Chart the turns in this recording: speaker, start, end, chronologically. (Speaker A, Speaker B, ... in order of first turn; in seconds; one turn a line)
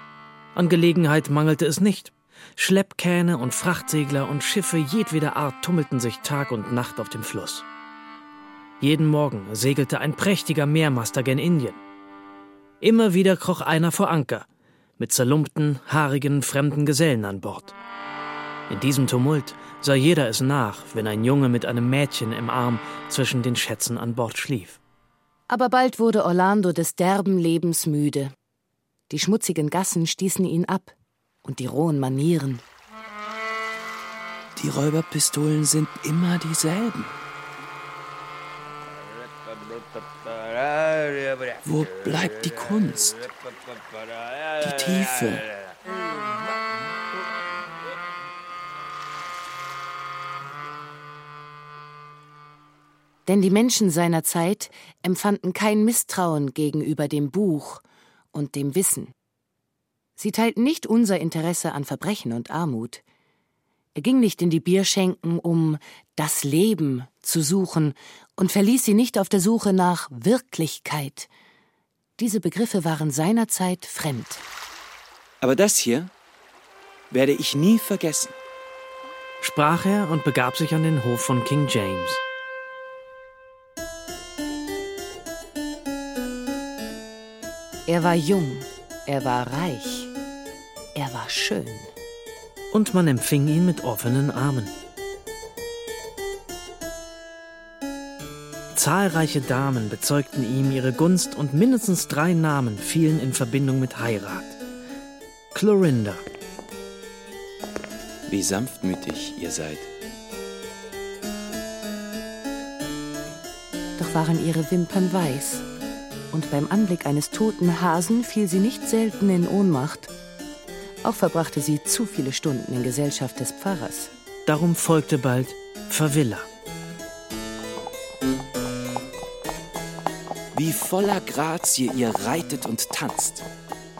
Speaker A: 0.5-7.6
Speaker A: 8.8-11.8
Speaker A: 12.8-14.4
Speaker A: 15.0-17.7
Speaker A: 18.7-24.8
Speaker B: 25.5-28.3
Speaker B: 29.1-32.6
Speaker C: 34.5-37.1
Speaker C: 41.6-43.3
Speaker C: 44.6-45.5
Speaker B: 53.2-57.8
Speaker B: 58.3-59.1
Speaker B: 60.2-63.0
Speaker B: 64.0-71.3
Speaker B: 72.2-74.4
Speaker C: 75.4-76.1
Speaker C: 77.1-78.3
Speaker A: 79.4-82.2
Speaker B: 87.9-90.1
Speaker B: 90.9-91.9
Speaker A: 92.7-94.7
Speaker A: 98.7-104.6
Speaker A: 105.5-106.2
Speaker C: 108.3-109.9
Speaker B: 114.0-115.6
Speaker B: 116.3-120.1
Speaker B: 121.0-124.1
Speaker A: 124.5-126.5
Speaker C: 130.5-133.4